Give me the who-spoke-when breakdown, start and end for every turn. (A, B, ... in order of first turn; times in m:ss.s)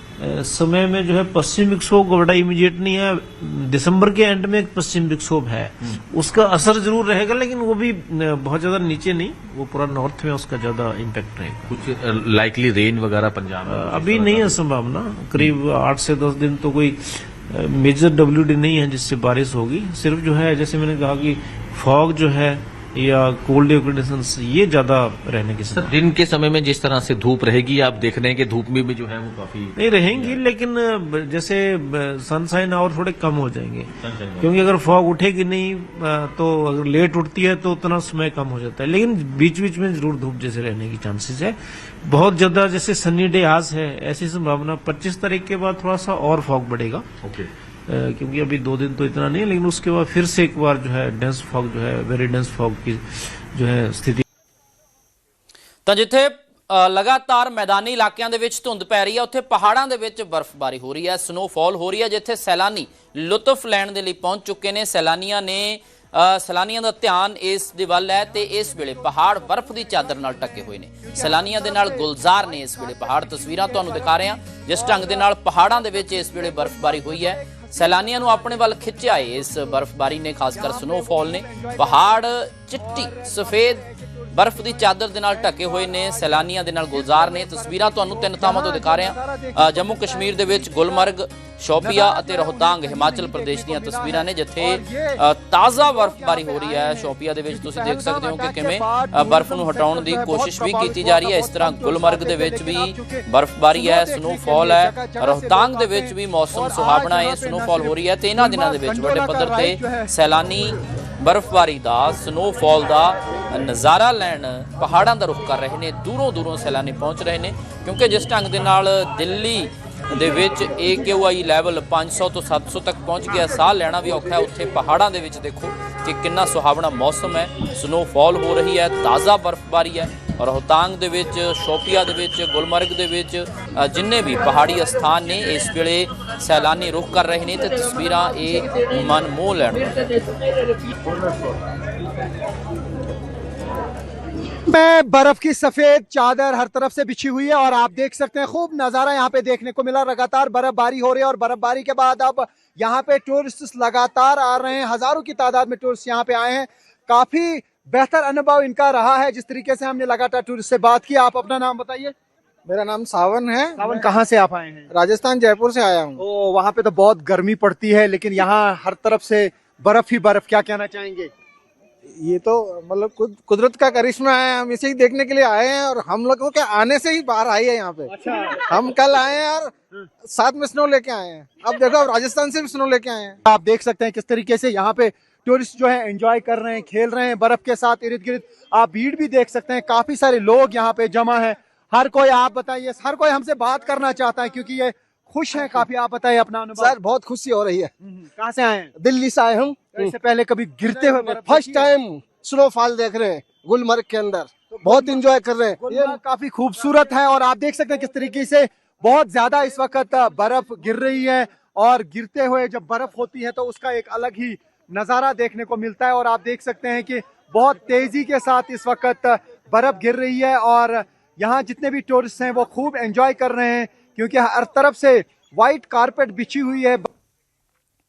0:00.2-0:11.7 A
0:11.7-0:14.6 B
0:13.7-0:25.9 A
0:25.7-0:30.4 B
0:29.8-0:47.1 A
0:34.0-0:34.7 B
0:47.2-0:47.5 B
0:47.9-0:54.2 A
0:55.9-2:20.2 C
1:08.3-1:19.9 D
1:20.5-1:31.1 D
1:31.8-1:50.1 D
2:24.7-2:42.2 D
2:42.7-2:44.1 E
2:43.8-2:44.9 D
2:44.9-2:46.2 E
2:46.2-2:51.3 D
2:52.1-3:03.4 E
2:58.1-2:58.6 D
3:03.4-3:17.0 D
3:16.8-3:17.9 E
3:18.0-3:18.9 D
3:19.0-3:20.1 E
3:19.9-3:21.9 D
3:20.8-3:26.2 E
3:24.7-3:25.2 D
3:25.8-3:47.1 D